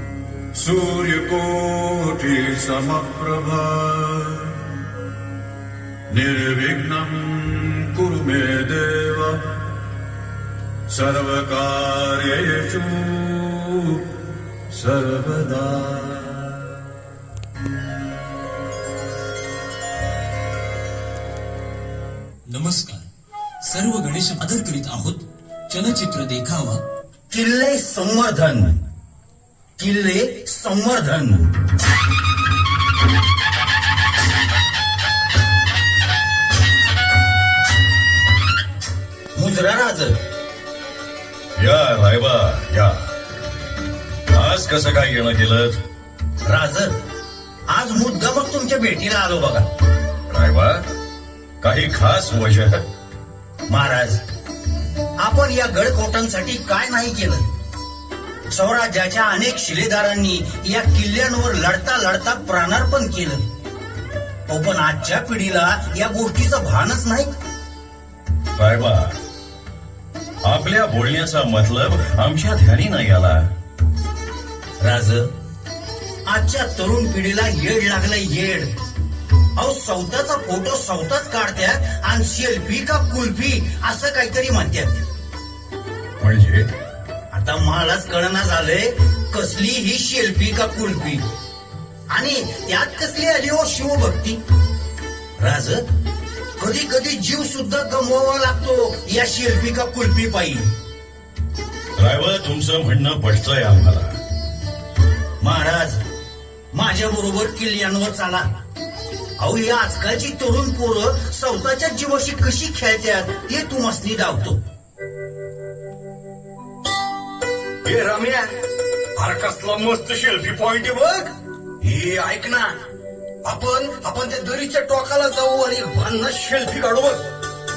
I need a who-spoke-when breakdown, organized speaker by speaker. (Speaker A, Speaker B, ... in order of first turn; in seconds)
Speaker A: 0.6-4.7, 6.1-9.6, 10.9-14.1, 14.7-16.6
Speaker B: 22.5-23.1, 23.6-26.8
Speaker C: 27.3-28.8, 29.8-31.5, 39.4-40.1, 46.5-46.9, 47.7-49.6, 53.7-54.2, 55.2-57.5, 58.5-63.4, 64.5-67.3, 74.8-75.3, 76.3-78.7, 79.6-85.0, 87.3-91.2, 92.1-94.4, 95.4-95.8, 96.6-100.6, 105.4-106.0, 106.7-108.4, 109.4-114.6
Speaker D: 41.6-43.0, 44.3-45.8, 50.3-50.8, 51.6-52.8, 68.6-69.1, 70.4-73.4, 86.2-86.7, 102.0-104.1
Speaker E: 117.8-118.5, 119.2-121.3, 121.8-122.7, 123.5-127.2